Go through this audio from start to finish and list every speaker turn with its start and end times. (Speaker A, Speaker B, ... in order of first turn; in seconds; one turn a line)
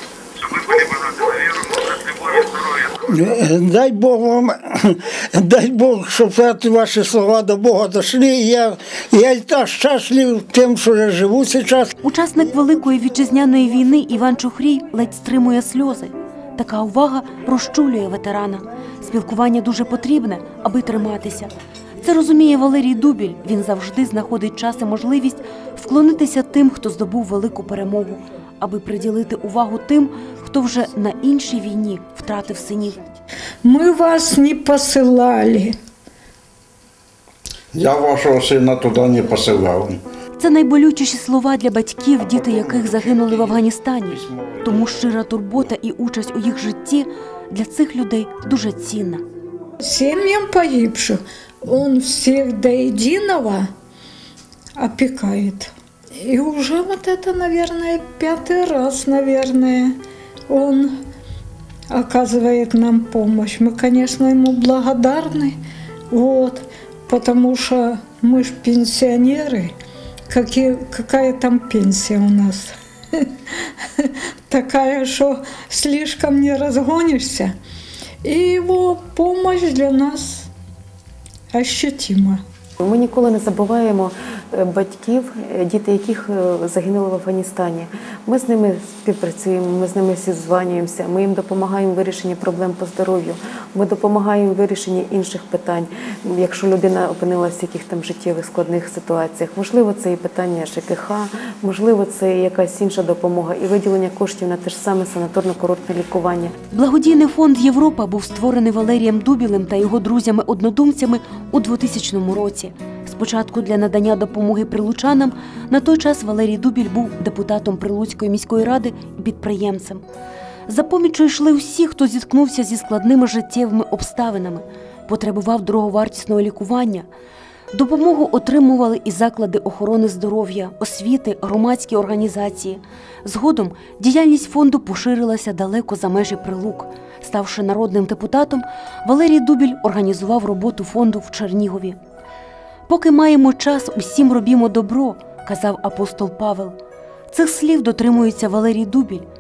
Speaker A: 0.5-2.8
Speaker B: 3.0-11.9
Speaker C: 12.0-21.5
Speaker C: 22.0-33.0
Speaker D: 33.6-35.7
Speaker A: 37.7-40.0
Speaker C: 40.4-49.2
Speaker D: 49.8-53.7
Speaker D: 54.8-60.0
Speaker D: 60.5-61.0
Speaker D: 61.9-65.5
Speaker D: 66.1-69.7
Speaker D: 70.3-73.2
Speaker D: 74.5-77.5
Speaker D: 78.2-80.5
Speaker D: 81.5-82.4
Speaker E: 82.8-106.5
Speaker C: 106.7-120.0
Speaker C: 120.7-127.1
Speaker C: 127.7-142.0
Speaker C: 142.9-146.8
Speaker C: 147.3-149.2